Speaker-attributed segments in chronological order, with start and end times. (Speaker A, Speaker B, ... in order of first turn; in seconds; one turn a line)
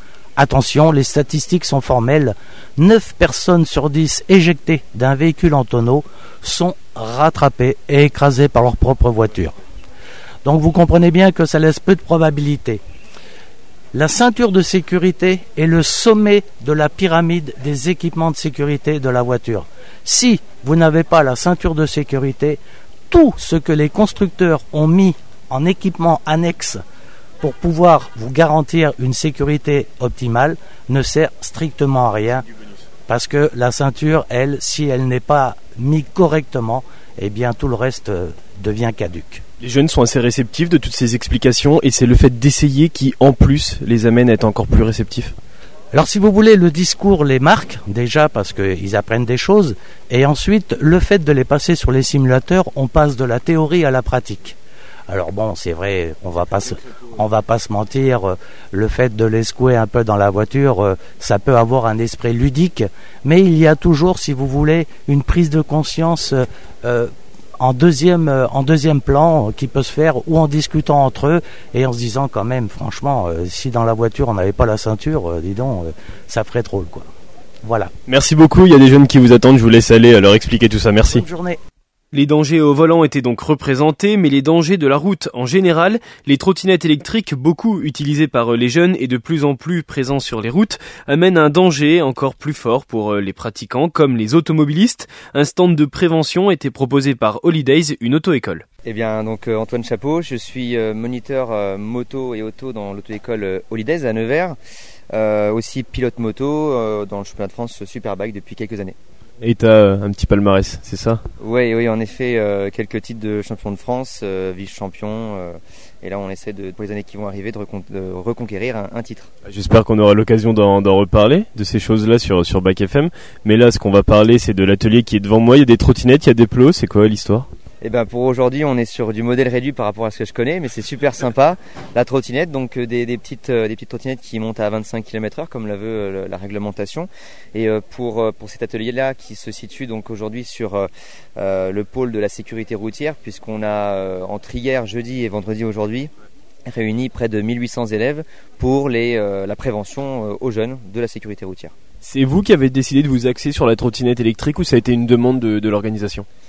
Speaker A: 0.4-9.6
Speaker A: 10.4-12.8
Speaker A: 13.9-26.8
Speaker A: 27.4-32.5
Speaker A: 33.1-39.4
Speaker B: 39.6-45.4
Speaker A: 45.9-54.6
Speaker A: 55.1-77.1
Speaker A: 77.7-77.9
Speaker B: 78.1-81.2
Speaker A: 81.1-81.6
Speaker B: 82.1-98.7
Speaker C: 98.8-104.6
Speaker C: 105.1-109.0
Speaker B: 109.4-111.2
Speaker C: 111.4-119.3
Speaker B: 119.5-127.5
Speaker C: 127.8-146.1
Speaker C: 146.7-151.7
Speaker B: 152.0-156.3